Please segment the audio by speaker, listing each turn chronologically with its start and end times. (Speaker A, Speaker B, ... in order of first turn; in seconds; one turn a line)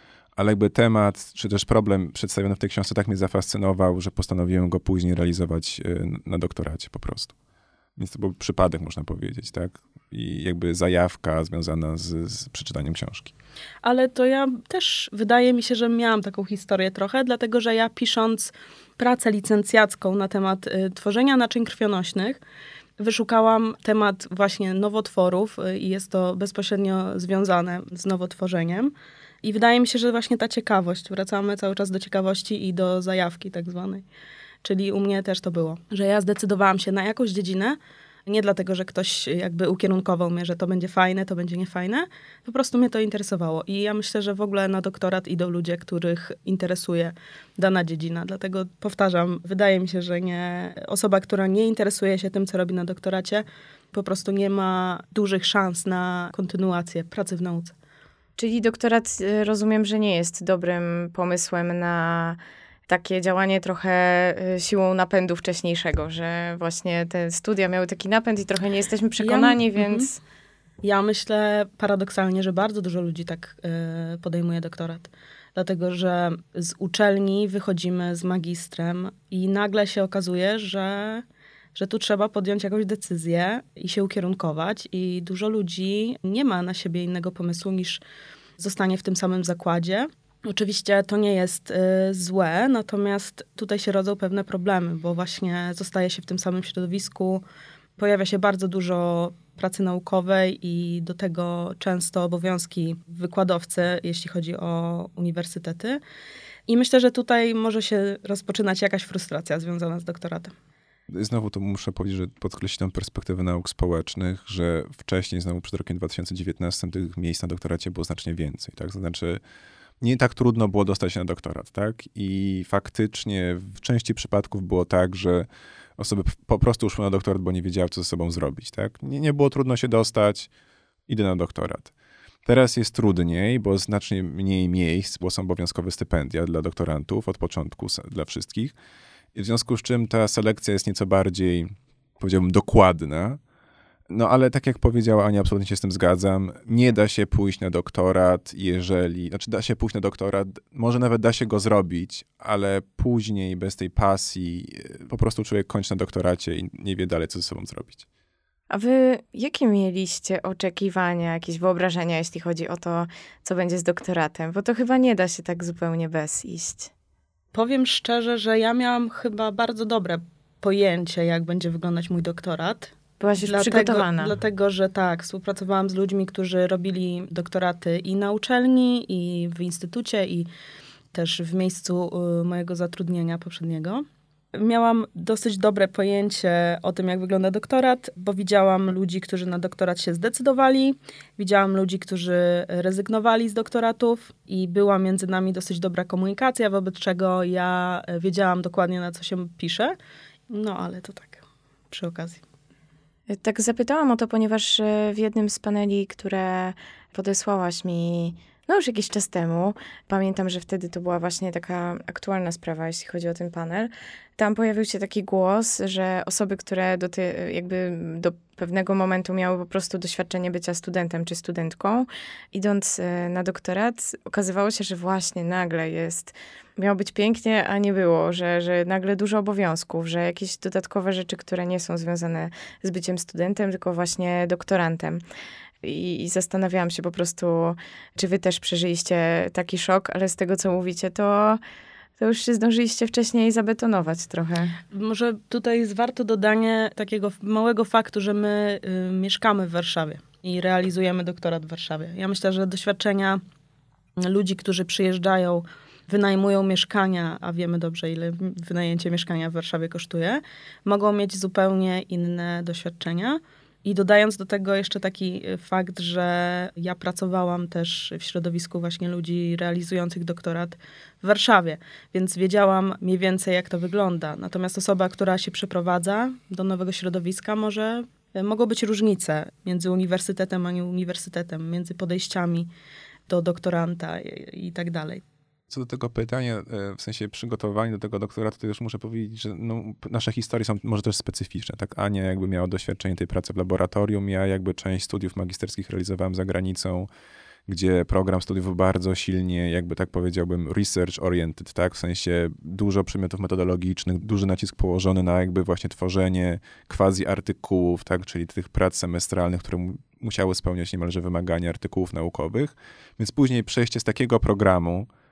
Speaker A: 0.4-7.3
Speaker A: 8.0-13.3
Speaker B: 13.8-22.4
Speaker B: 23.0-34.0
Speaker B: 34.6-57.7
Speaker C: 58.4-70.2
Speaker B: 69.2-70.1
Speaker B: 70.8-88.0
Speaker B: 88.6-97.4
Speaker B: 98.0-106.0
Speaker B: 106.7-110.5
Speaker A: 111.1-119.4
Speaker A: 120.0-125.5
Speaker A: 126.0-130.5
Speaker A: 131.1-131.9
Speaker A: 132.5-138.8
Speaker A: 139.3-143.4
Speaker A: 144.1-158.1
Speaker C: 158.7-166.9
Speaker B: 167.5-180.5
Speaker C: 173.2-174.3
Speaker B: 181.1-199.9
Speaker B: 200.5-202.4
Speaker C: 203.3-235.2
Speaker C: 235.8-241.6
Speaker C: 242.2-244.8
Speaker B: 244.9-253.4
Speaker B: 254.2-282.7
Speaker B: 283.3-285.2
Speaker A: 285.7-297.1
Speaker A: 297.7-315.1